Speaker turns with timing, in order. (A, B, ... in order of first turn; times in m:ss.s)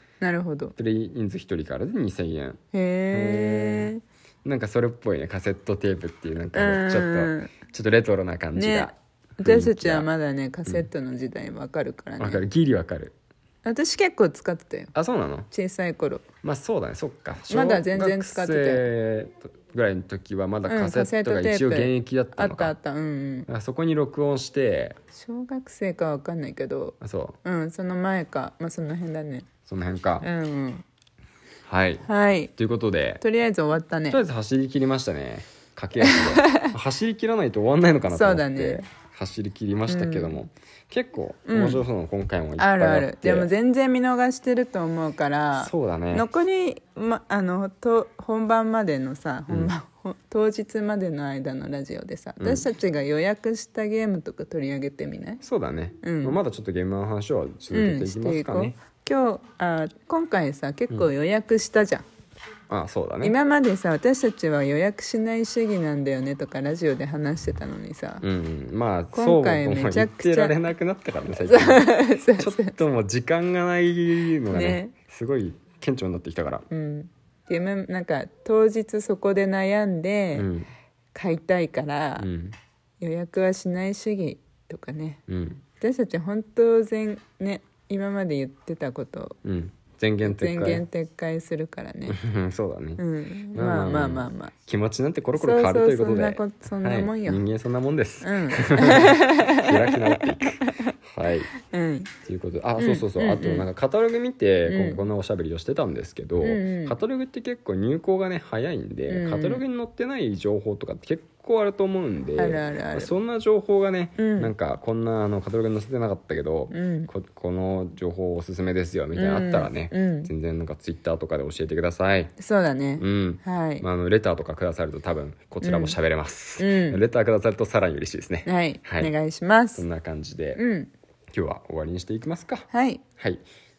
0:00.2-0:00.8 A
0:00.8-0:02.6 B
0:02.7-0:04.0 A
0:03.1-0:03.9 B
0:04.4-0:10.1 B
0:06.5-0:07.5 A
0:08.6-0:12.4 A
0:12.2-0:13.1 B
0:13.6-0:14.9 A
0:14.9-0:15.5 B
0:15.5-0:16.2 A
0:16.4-0:22.7 B
0:17.5-0:18.9 A
0:20.7-0:23.5 A
0:23.5-0:25.0 B
0:25.1-0:29.5 A
0:27.0-0:27.4 B
0:29.7-0:30.3 B
0:30.2-0:30.8 A
0:31.7-0:32.0 B
0:32.0-0:32.5 A
0:32.6-0:33.2 B
0:33.2-0:34.2 A
0:34.1-0:43.5 B
0:36.0-0:36.7 A
0:38.1-0:38.8 A
0:39.9-0:40.4 A
0:41.5-0:41.8 A
0:42.6-0:55.4 A
0:45.6-0:46.2 B
0:52.4-0:52.7 B
0:55.4-0:58.8 B
0:56.0-0:56.4 A
0:57.7-1:02.0 A
1:02.7-1:03.4 B
1:03.2-1:08.2 A
1:08.2-1:16.6 B
1:09.1-1:10.6 A
1:11.3-1:12.8 A
1:14.5-1:15.0 A
1:16.7-1:20.5 A
1:20.3-1:20.7 B
1:21.1-1:22.3 A
1:22.2-1:22.6 B
1:23.0-1:25.2 A
1:25.3-1:25.6 B
1:25.8-1:29.4 A
1:29.4-1:30.8 B
1:30.2-1:32.2 A
1:32.1-1:33.0 B
1:33.0-1:34.5 A
1:33.5-1:41.5 B
1:35.4-1:37.4 A
1:38.2-1:40.9 A
1:41.6-1:42.1 A
1:42.2-2:02.3 B
1:42.8-1:43.7 A
1:44.6-1:45.0 A
1:46.4-1:47.0 A
1:49.1-1:49.6 A
1:52.4-1:53.1 A
1:54.2-1:54.5 A
1:56.7-1:57.1 A
1:59.1-2:00.3 A
2:02.4-2:03.8 A
2:03.0-2:09.1 B
2:05.6-2:06.0 A
2:06.6-2:07.0 A
2:08.5-2:09.8 A
2:09.8-2:10.6 B
2:10.6-2:10.9 A
2:11.3-2:12.6 B
2:12.7-2:13.0 A
2:13.2-2:13.4 B